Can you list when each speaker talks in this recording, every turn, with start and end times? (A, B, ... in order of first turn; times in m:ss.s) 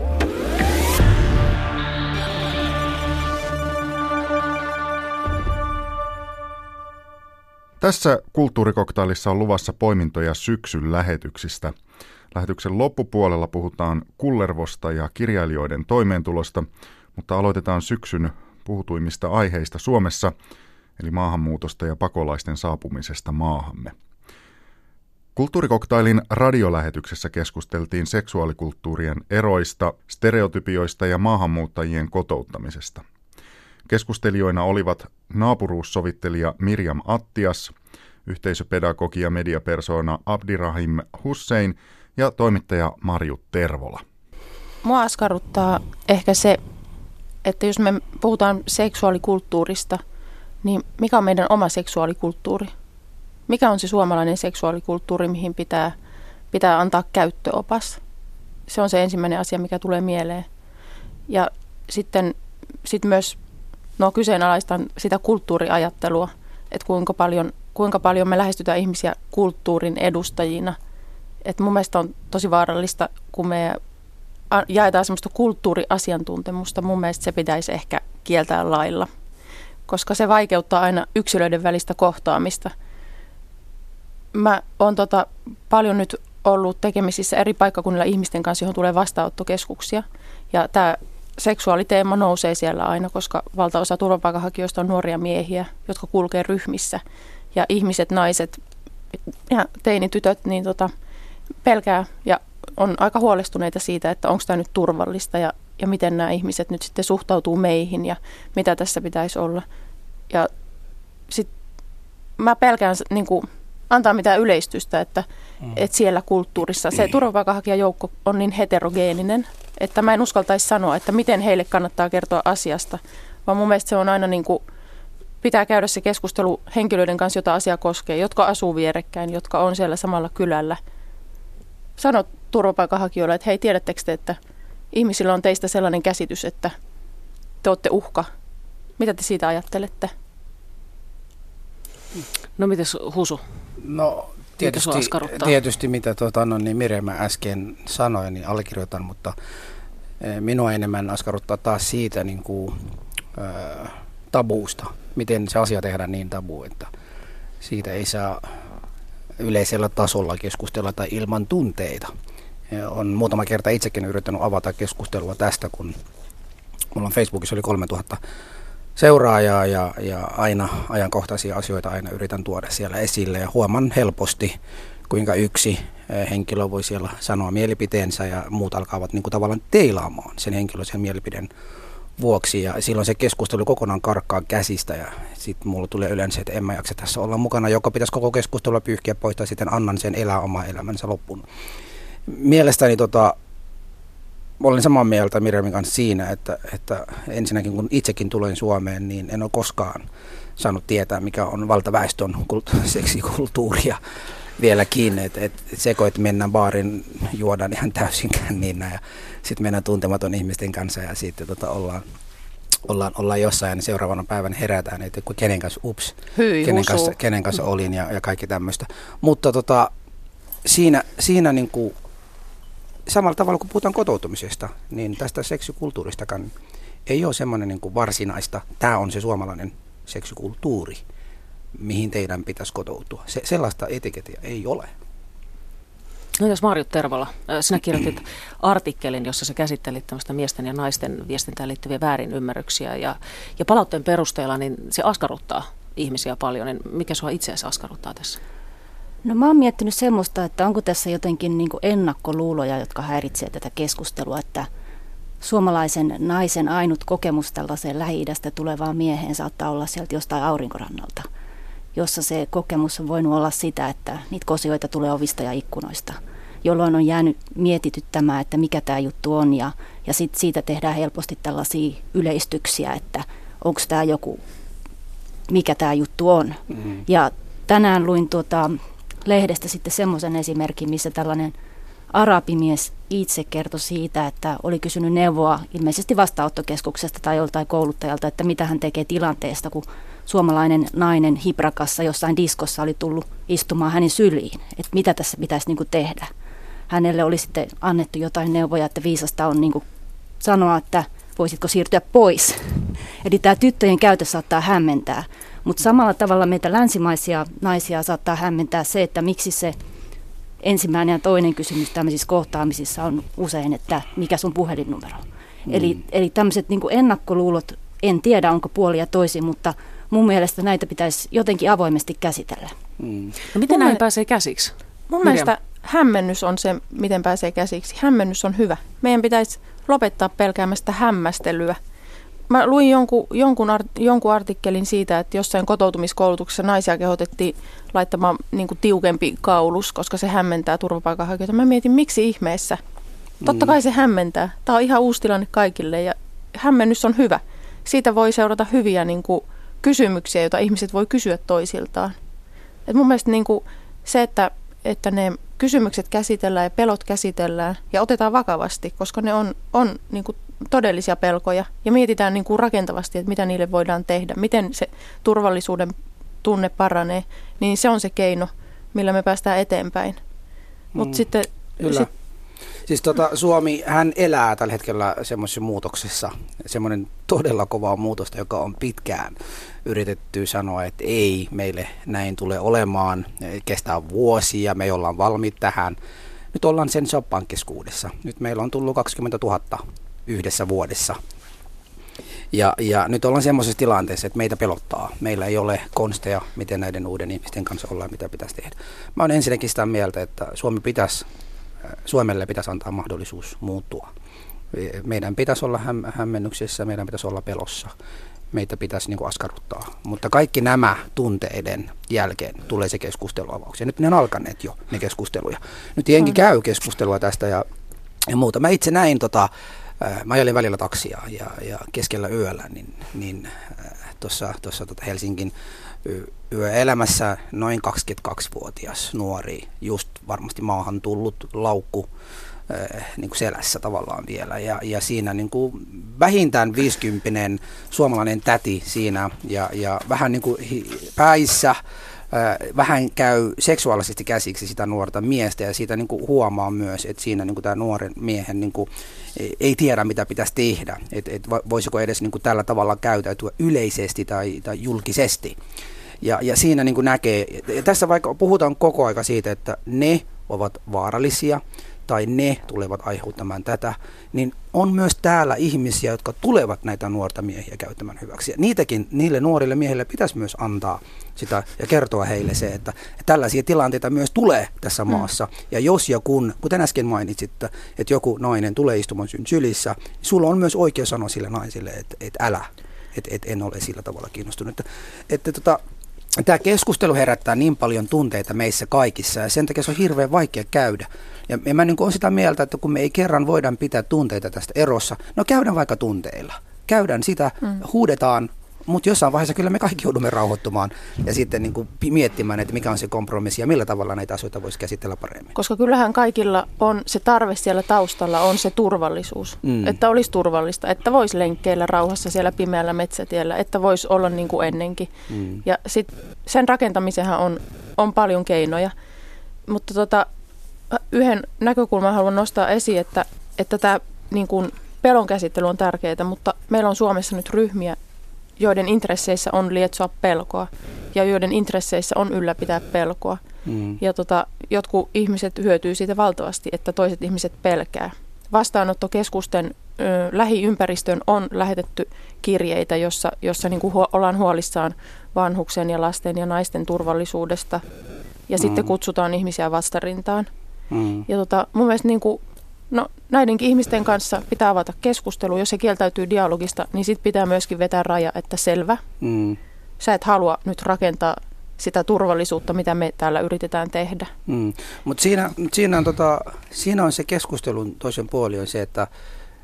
0:07.8-0:11.7 A
0:12.3-0:20.3 A
0:21.0-0:24.0 A
0:25.3-0:33.0 A
0:33.9-0:37.7 A
0:38.3-0:44.0 A
0:44.8-0:46.6 B
0:47.4-0:50.0 B
0:50.6-0:52.7 B
0:53.5-0:56.0 B
0:56.5-0:58.0 B
0:58.7-1:00.5 B
1:01.3-1:03.4 B
1:04.0-1:10.8 B
1:11.4-1:13.8 B
1:14.5-1:19.1 B
1:19.9-1:22.7 B
1:24.3-1:37.0 B
1:37.5-1:38.6 B
1:39.5-1:40.9 B
1:41.6-1:49.6 B
1:52.4-2:04.6 B
2:05.4-2:10.8 B
2:12.0-2:14.4 B
2:14.9-2:16.8 B
2:17.6-2:18.3 B
2:19.0-2:20.1 B
2:22.6-2:23.4 C
2:23.8-2:29.4 D
2:24.6-2:25.5 C
2:30.2-2:36.9 D
2:37.6-2:38.6 D
2:39.4-2:42.1 D
2:42.7-2:46.0 D
2:46.9-2:48.2 D
2:49.0-2:54.6 D
2:55.1-3:01.5 D
3:02.2-3:11.4 D
3:12.3-3:13.4 D
3:14.6-3:20.1 D
3:20.6-3:24.0 D
3:24.6-3:32.1 D
3:32.9-3:39.9 D
3:36.4-3:37.1 B
3:40.6-3:41.9 D
3:43.1-3:46.5 D
3:47.1-3:51.0 D
3:51.8-3:54.9 D
3:56.4-4:08.4 C
4:09.2-4:14.7 E
4:15.4-4:21.3 E
4:21.9-4:34.4 E
4:35.5-4:41.5 E
4:42.1-4:56.3 E
4:56.9-4:59.8 E
5:00.4-5:09.8 E
5:10.6-5:22.8 E
5:15.7-5:16.0 D
5:23.0-5:23.3 D
5:23.5-5:25.5 C
5:23.7-5:24.0 B
5:25.2-5:31.8 B
5:32.5-5:42.8 B
5:43.4-5:43.7 D
5:43.4-5:52.1 B
5:52.9-6:10.2 B
6:10.9-6:11.2 D
6:11.0-6:12.1 B
6:11.8-6:12.1 D
6:12.9-6:26.0 D
6:26.5-6:31.2 D
6:32.5-6:41.2 D
6:42.0-6:44.1 D
6:44.7-6:47.9 D
6:48.5-6:57.6 D
6:58.3-7:05.5 D
7:06.0-7:12.1 D
7:12.7-7:21.8 D
7:22.3-7:35.6 D
7:36.2-8:05.8 D
8:06.4-8:25.5 D
8:25.6-8:35.1 B
8:29.6-8:30.0 D
8:35.3-8:35.6 D
8:35.6-8:38.9 B
8:39.7-8:40.3 B
8:40.9-8:48.0 B
8:48.6-8:53.4 B
8:53.7-8:54.0 D
8:54.0-9:07.8 B
9:08.5-9:10.5 B
9:08.6-9:08.9 D
9:10.9-9:11.2 D
9:11.3-9:19.0 B
9:19.2-9:19.6 D
9:20.0-9:24.3 B
9:24.5-9:29.1 D